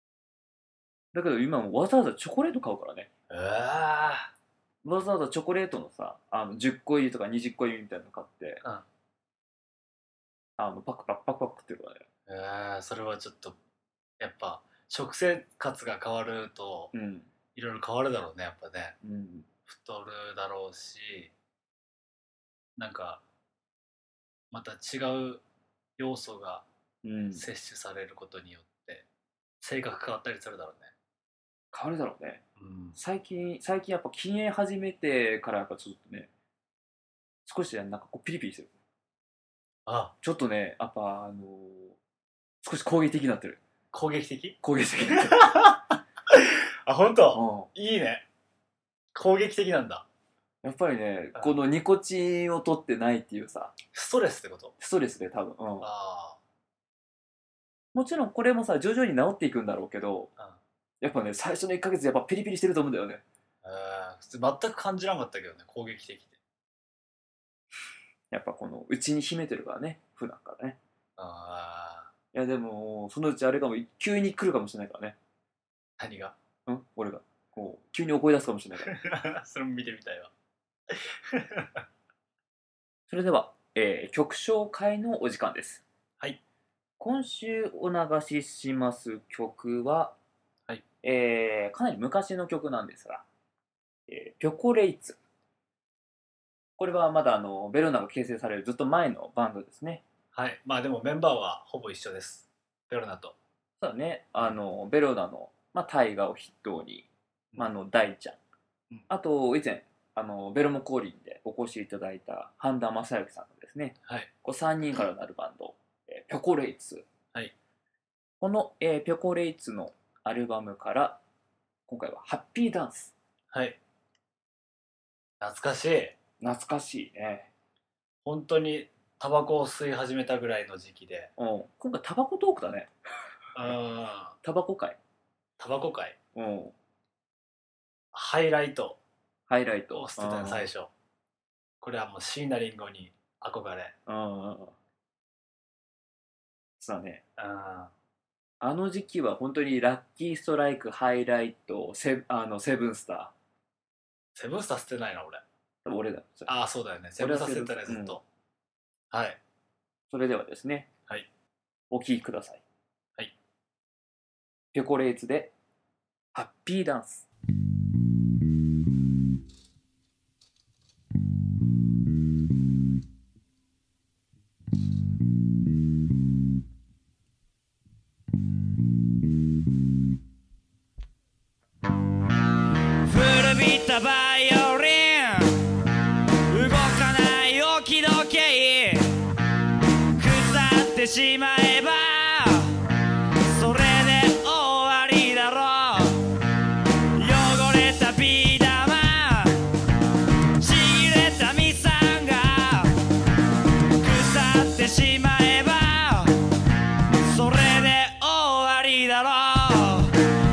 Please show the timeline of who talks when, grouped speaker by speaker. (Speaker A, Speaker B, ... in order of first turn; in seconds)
Speaker A: 1.1-3.1, 4.8-8.6, 10.6-12.0, 16.9-17.3, 19.0-19.5, 27.0-27.5, 31.7-32.4, 33.0-36.3, 37.5-38.7, 40.2-42.0, 42.6-43.6, 44.6-45.7, 47.3-47.7, 50.6-53.8, 54.8-55.9, 57.9-60.3, 61.0-63.2, 68.3-70.8, 72.3-75.2, 76.7-79.0, 83.1-85.8, 87.0-90.1, 91.0-93.2, 94.1-95.2, 96.8-100.0, 103.8-108.4, 109.1-117.0, 118.4-121.2, 121.9-123.1, 126.4-127.5, 131.4-132.9, 134.4-135.0, 136.3-136.7, 139.5-140.7, 144.1-144.7, 146.8-147.2, 148.6-153.3, 155.8-156.5, 157.2-158.2, 160.1-160.9, 161.9-162.6, 164.7-165.5, 166.3-167.3
Speaker B: 3.3-4.3, 12.3-13.6, 14.2-16.9, 17.5-18.9, 19.7-21.3, 22.8-23.2, 24.5-25.4, 26.0-26.6, 27.3-29.0, 29.6-30.9, 32.6-33.0, 39.9-40.1, 43.9-48.2, 49.1-50.0, 53.9-54.7, 55.8-56.4, 63.6-66.4, 71.2-72.1, 76.0-76.3, 78.8-80.3, 80.9-81.8, 100.3-103.3, 114.0-114.3, 123.5-123.8, 125.4-126.2, 128.2-131.3, 133.5-134.3, 135.6-136.2, 138.1-139.0, 139.9-140.9, 141.8-143.9, 147.4-147.9, 154.3-155.4, 156.5-158.2, 159.1-159.4
Speaker C: 183.0-185.6, 186.5-189.2, 190.2-192.8, 193.5-196.2, 197.2-199.6, 200.6-202.9, 204.0-206.3, 207.2-210.2